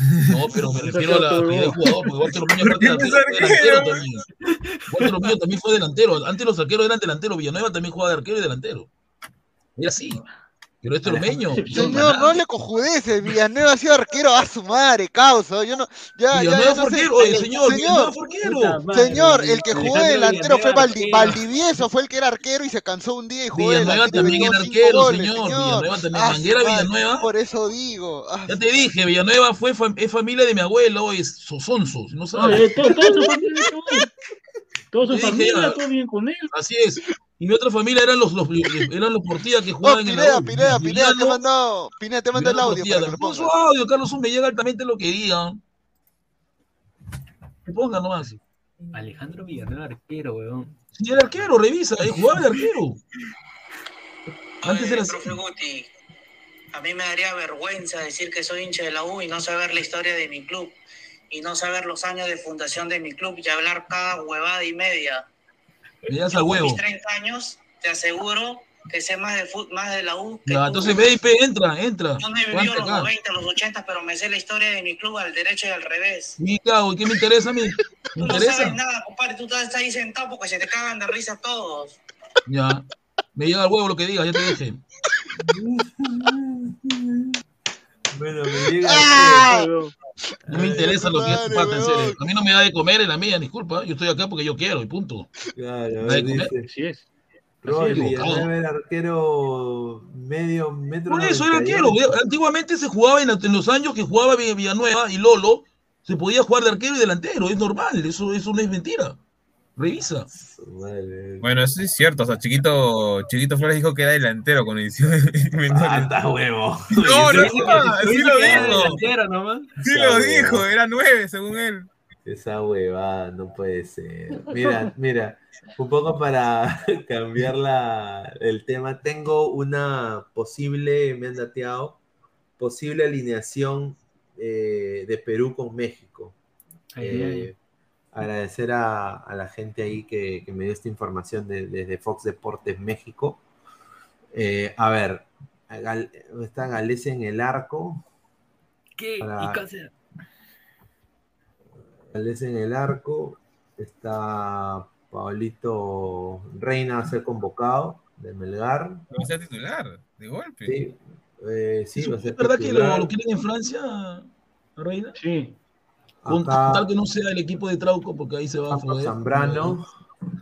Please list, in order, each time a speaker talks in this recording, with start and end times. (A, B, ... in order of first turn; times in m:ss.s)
0:00.3-0:04.3 A
0:00.8-0:01.8 B
0:02.5-0:03.2 C
0:02.7-0:04.0 D
0:04.9-0:08.9 A
0:09.8-0:10.2 A
0:10.8-0:12.4 A
0:11.0-0:11.5 C
0:11.5-0:12.1 B
0:11.7-0:18.2 E
0:16.3-0:18.9 A
0:18.4-0:20.7 B
0:18.9-0:28.7 E
0:19.7-0:21.4 F
0:23.5-0:27.3 A
0:28.5-0:33.0 A
0:32.4-0:34.1 B
0:32.9-0:33.3 E
0:34.9-0:36.5 B
0:35.1-0:35.8 A
0:36.5-0:41.4 A
0:39.8-0:43.5 E
0:42.3-0:45.6 A
0:47.6-0:48.4 A
0:48.9-0:50.8 F
0:50.9-0:53.0 A
0:54.6-0:55.4 A
0:54.6-0:55.9 G
0:56.7-1:00.7 G
1:01.3-1:05.2 G
1:06.1-1:06.8 A
1:06.3-1:11.1 G
1:10.5-1:13.1 A
1:12.2-1:16.4 G
1:16.4-1:18.8 A
1:18.2-1:22.0 G
1:22.5-1:24.8 A
1:25.3-1:27.4 C
1:28.1-1:29.5 C
1:28.8-1:29.7 E
1:29.3-1:29.9 B
1:30.5-1:31.0 C
1:30.5-1:35.3 A
1:30.6-1:32.2 E
1:35.6-1:36.7 C
1:36.0-1:36.5 A
1:36.6-1:37.1 B
1:37.6-1:42.2 C
1:37.6-1:38.2 B
1:37.9-1:38.5 A
1:41.1-1:49.2 A
1:49.8-1:50.3 A
1:50.3-1:51.5 C
1:51.4-1:56.2 D
1:55.7-1:59.0 C
1:56.9-1:59.0 D
1:57.2-1:59.7 F
1:59.8-2:01.9 D
1:59.8-2:00.7 C
2:02.3-2:12.0 C
2:12.6-2:16.4 C
2:17.0-2:17.5 F
2:17.0-2:17.6 C
2:18.1-2:23.4 C
2:24.3-2:28.0 C
2:29.0-2:29.9 F
2:29.2-2:29.7 C
2:32.1-2:39.1 C
2:39.1-2:40.8 D
2:40.6-2:43.1 C
2:42.0-2:45.2 A
2:45.2-2:45.6 B
2:46.2-2:46.9 C
2:46.3-2:49.8 A
2:48.7-2:49.9 C